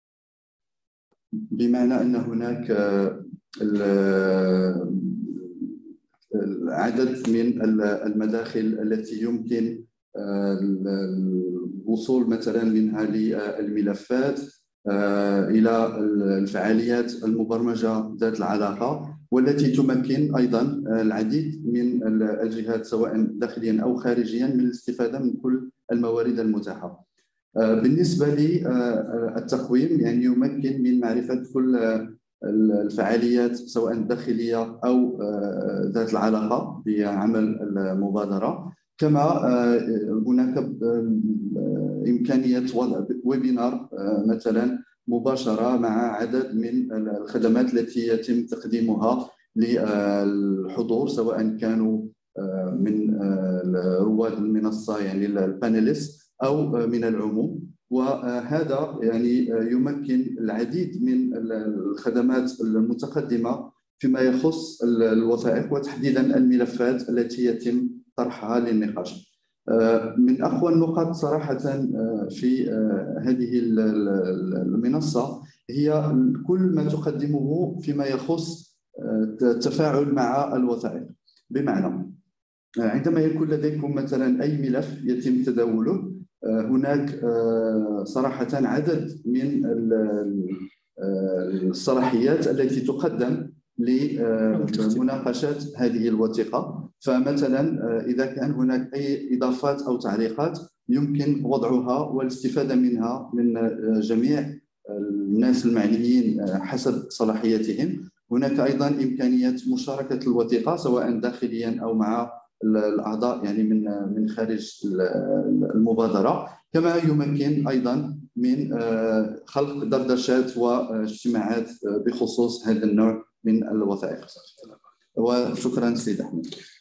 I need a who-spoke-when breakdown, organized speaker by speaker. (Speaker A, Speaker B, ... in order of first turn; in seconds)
Speaker A: 1.5-27.0, 27.6-82.1, 82.8-124.6, 125.2-126.5